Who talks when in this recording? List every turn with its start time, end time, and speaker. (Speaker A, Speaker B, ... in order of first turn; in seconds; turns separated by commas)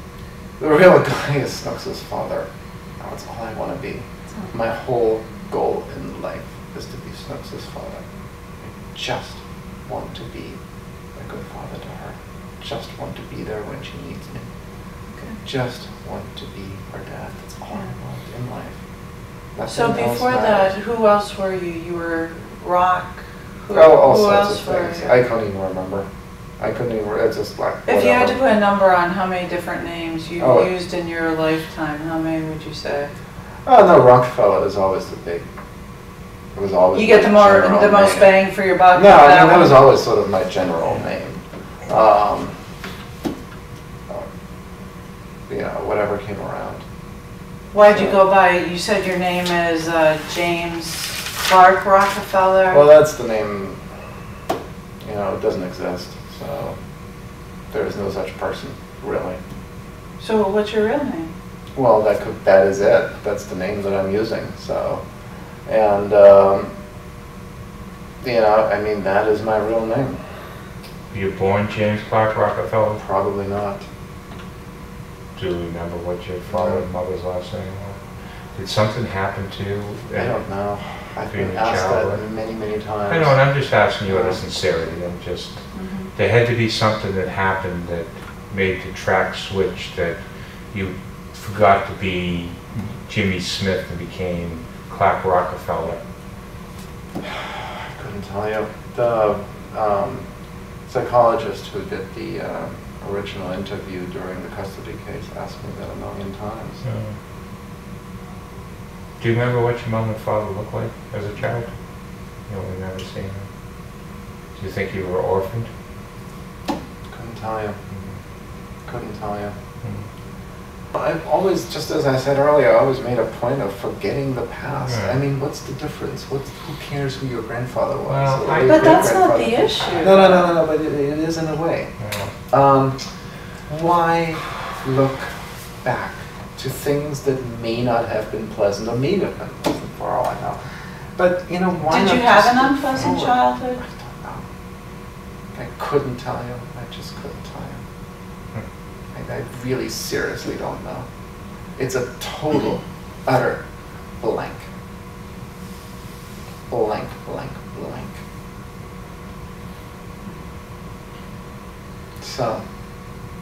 Speaker A: 0.6-2.5, Speaker A: 3.0-8.0, Speaker A: 8.7-10.6, Speaker A: 11.1-14.5, Speaker B: 15.1-15.4, Speaker A: 15.4-18.8, Speaker A: 19.5-20.7, Speaker B: 19.7-25.1, Speaker A: 23.7-26.1, Speaker A: 26.6-28.4, Speaker B: 27.9-33.1, Speaker A: 30.4-30.7, Speaker A: 33.6-35.4, Speaker A: 36.5-42.5, Speaker B: 36.9-39.9, Speaker A: 45.5-46.8, Speaker B: 47.7-52.9, Speaker A: 47.8-48.2, Speaker A: 52.7-53.8, Speaker A: 55.0-56.8, Speaker A: 57.7-59.4, Speaker B: 60.2-61.3, Speaker A: 61.7-65.0, Speaker A: 65.7-66.7, Speaker A: 68.2-70.2, Speaker C: 71.1-73.0, Speaker A: 73.0-73.8, Speaker C: 75.3-82.3, Speaker A: 76.5-76.8, Speaker A: 80.1-83.5, Speaker C: 83.1-96.0, Speaker A: 84.0-84.4, Speaker B: 85.7-86.1, Speaker A: 97.2-100.2, Speaker A: 100.8-106.8, Speaker C: 106.8-107.2, Speaker C: 109.2-113.5, Speaker C: 114.6-115.7, Speaker A: 117.1-117.8, Speaker A: 118.8-119.5, Speaker A: 120.9-131.9, Speaker C: 124.8-125.2, Speaker C: 128.1-129.2, Speaker B: 128.6-130.5, Speaker C: 132.0-132.3, Speaker A: 132.5-133.0, Speaker A: 133.7-140.6, Speaker A: 141.2-144.4, Speaker B: 141.9-143.8, Speaker A: 145.5-147.8, Speaker A: 149.1-151.1, Speaker A: 151.8-153.6, Speaker A: 154.2-154.7, Speaker A: 156.7-158.2, Speaker A: 162.2-162.6